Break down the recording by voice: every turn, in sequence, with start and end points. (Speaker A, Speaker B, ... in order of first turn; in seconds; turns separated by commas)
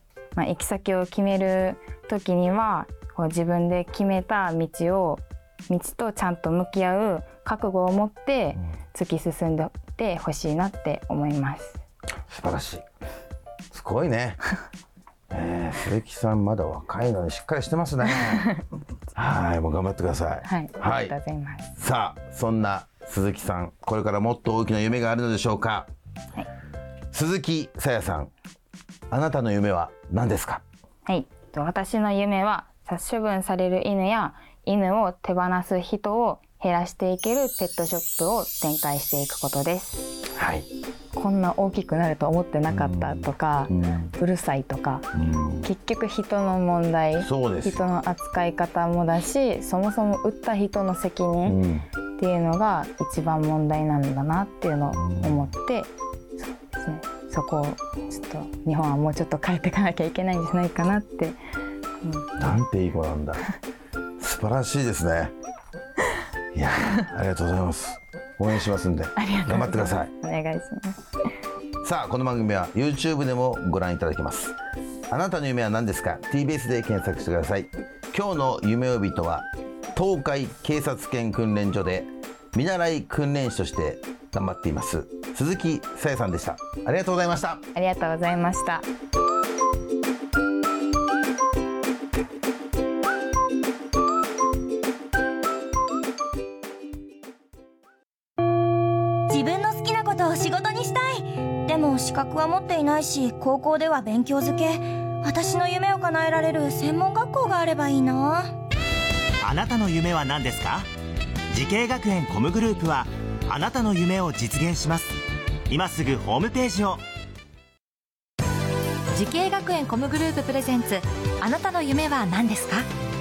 Speaker A: 0.4-11.8, Speaker B: 12.3-12.9, Speaker B: 13.7-14.4, Speaker B: 15.3-18.5, Speaker B: 19.1-21.1, Speaker A: 20.4-21.7, Speaker B: 21.8-25.9, Speaker B: 27.1-28.3, Speaker B: 29.1-30.6, Speaker A: 31.1-40.1, Speaker B: 40.4-40.7, Speaker A: 41.1-45.0, Speaker B: 42.7-44.1, Speaker B: 45.1-45.7, Speaker A: 45.6-51.6, Speaker B: 47.2-47.8, Speaker B: 51.5-51.9, Speaker A: 52.2-61.4, Speaker B: 54.9-55.5, Speaker A: 62.0-62.5, Speaker B: 62.4-63.4, Speaker B: 64.2-65.3, Speaker B: 66.5-70.1, Speaker A: 69.2-71.0, Speaker B: 71.8-74.6, Speaker B: 75.1-87.6, Speaker A: 87.7-88.9, Speaker C: 99.3-108.4, Speaker D: 109.4-110.9, Speaker D: 111.5-115.2, Speaker D: 115.7-117.0, Speaker E: 119.1-122.9